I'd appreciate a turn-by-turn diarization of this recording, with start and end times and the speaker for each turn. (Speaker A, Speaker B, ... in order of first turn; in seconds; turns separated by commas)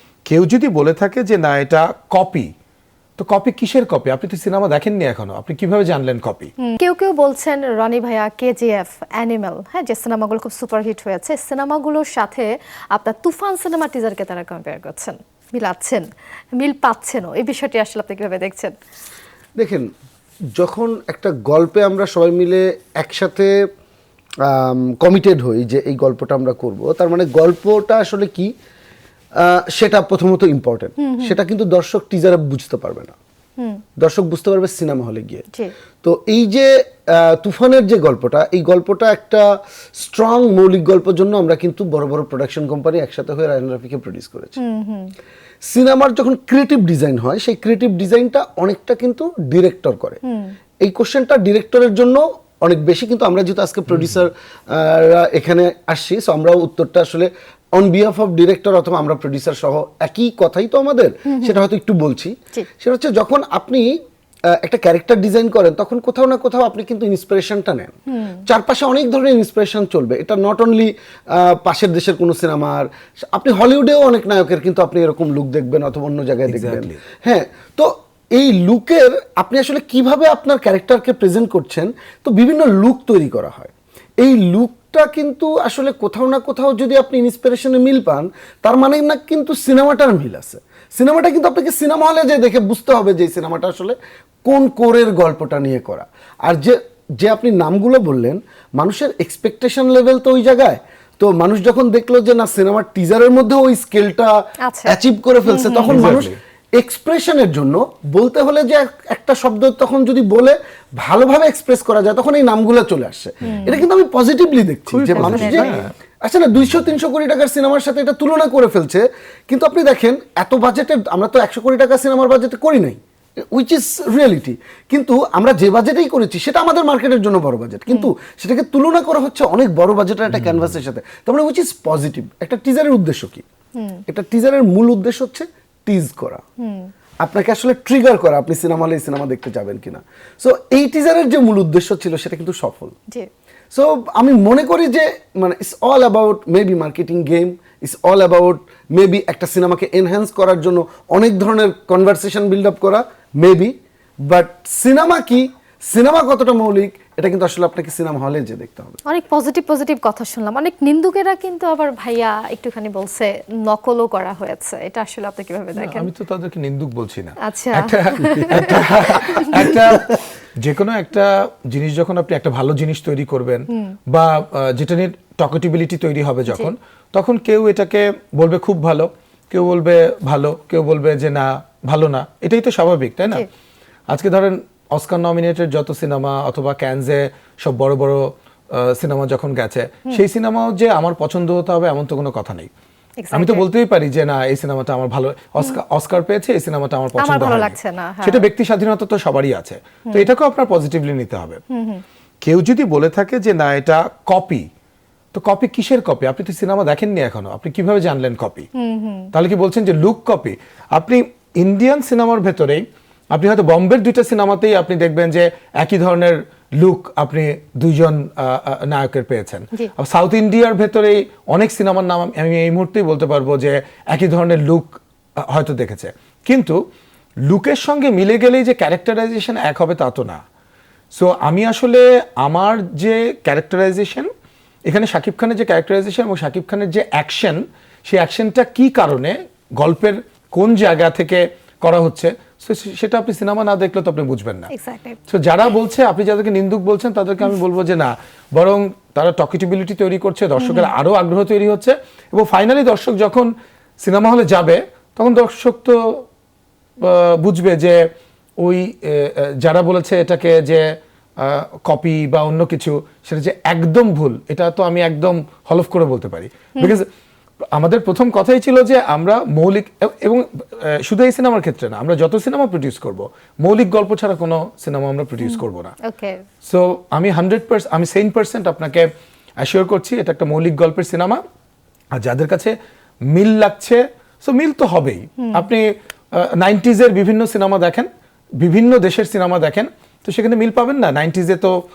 Speaker A: 0.2-2.5, Speaker A: 3.2-6.5, Speaker B: 6.7-16.1, Speaker B: 16.6-18.8, Speaker C: 19.6-19.9, Speaker C: 20.6-23.5, Speaker C: 24.4-28.5, Speaker C: 29.4-33.1, Speaker B: 31.0-31.4, Speaker C: 34.0-35.5, Speaker C: 36.0-44.5, Speaker B: 44.6-45.1, Speaker C: 45.7-50.2, Speaker B: 50.3-50.5, Speaker C: 50.8-63.9, Speaker B: 61.3-61.6, Speaker C: 64.5-104.3, Speaker A: 76.5-77.0, Speaker B: 104.7-106.0, Speaker C: 104.8-123.0, Speaker A: 105.9-106.3, Speaker B: 113.5-113.8, Speaker A: 114.9-115.9, Speaker B: 115.1-115.8, Speaker C: 123.5-133.4, Speaker B: 133.8-134.0, Speaker C: 134.1-136.4, Speaker B: 136.6-136.9, Speaker C: 137.2-142.9, Speaker C: 143.7-153.7, Speaker C: 154.2-159.0, Speaker B: 159.1-166.1, Speaker A: 165.7-183.4, Speaker B: 167.4-169.5, Speaker C: 168.5-170.1, Speaker A: 184.1-188.2, Speaker A: 188.8-192.7, Speaker B: 193.2-193.7, Speaker A: 193.3-201.6, Speaker B: 197.2-198.4, Speaker B: 201.7-202.0, Speaker A: 202.4-204.7, Speaker A: 205.3-208.7, Speaker B: 208.8-209.3, Speaker A: 209.3-226.8, Speaker A: 227.4-230.4, Speaker A: 231.1-234.3, Speaker A: 234.9-244.7, Speaker B: 244.7-245.2, Speaker A: 245.3-253.5, Speaker B: 250.6-250.9, Speaker A: 254.0-256.2, Speaker A: 257.0-258.0, Speaker A: 258.6-260.8, Speaker A: 261.4-267.0, Speaker A: 267.7-275.9, Speaker B: 275.4-276.4, Speaker A: 276.6-279.1, Speaker A: 279.6-281.4, Speaker A: 282.1-282.7, Speaker A: 283.3-288.1, Speaker B: 285.4-285.7, Speaker A: 288.6-291.8